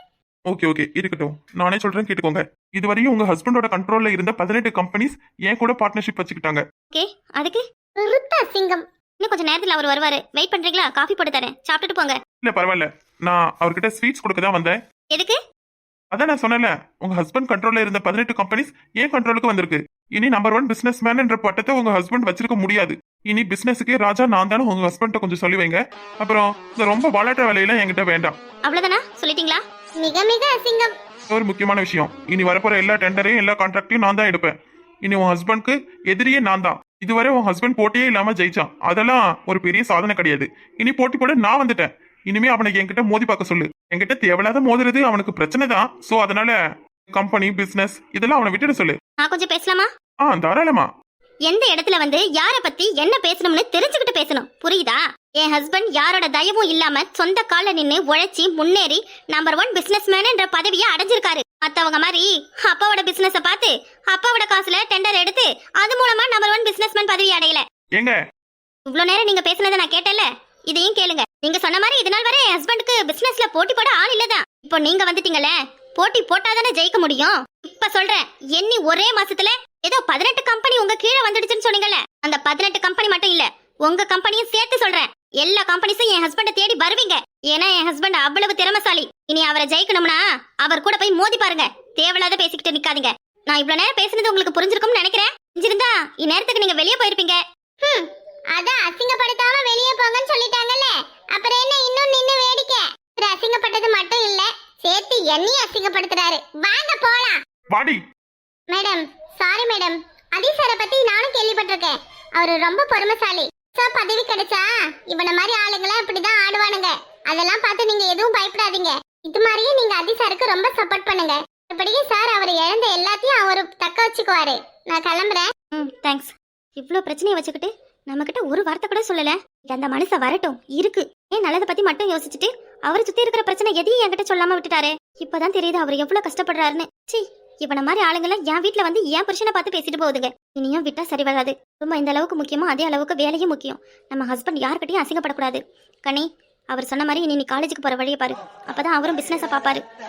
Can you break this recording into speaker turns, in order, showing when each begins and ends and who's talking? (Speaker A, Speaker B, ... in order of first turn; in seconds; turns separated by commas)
Speaker A: 0.5-6.6, Speaker B: 6.9-7.6, Speaker C: 8.0-8.8, Speaker B: 9.2-12.2, Speaker A: 12.4-14.8, Speaker B: 15.1-15.4, Speaker A: 16.1-28.4, Speaker B: 28.6-29.6, Speaker C: 30.0-30.9, Speaker A: 31.3-46.6, Speaker A: 47.1-49.0, Speaker B: 49.2-49.9, Speaker A: 50.2-50.9, Speaker B: 51.5-67.7, Speaker B: 68.9-97.4, Speaker C: 97.8-107.4, Speaker A: 107.7-108.0, Speaker C: 108.7-125.5, Speaker B: 125.7-149.8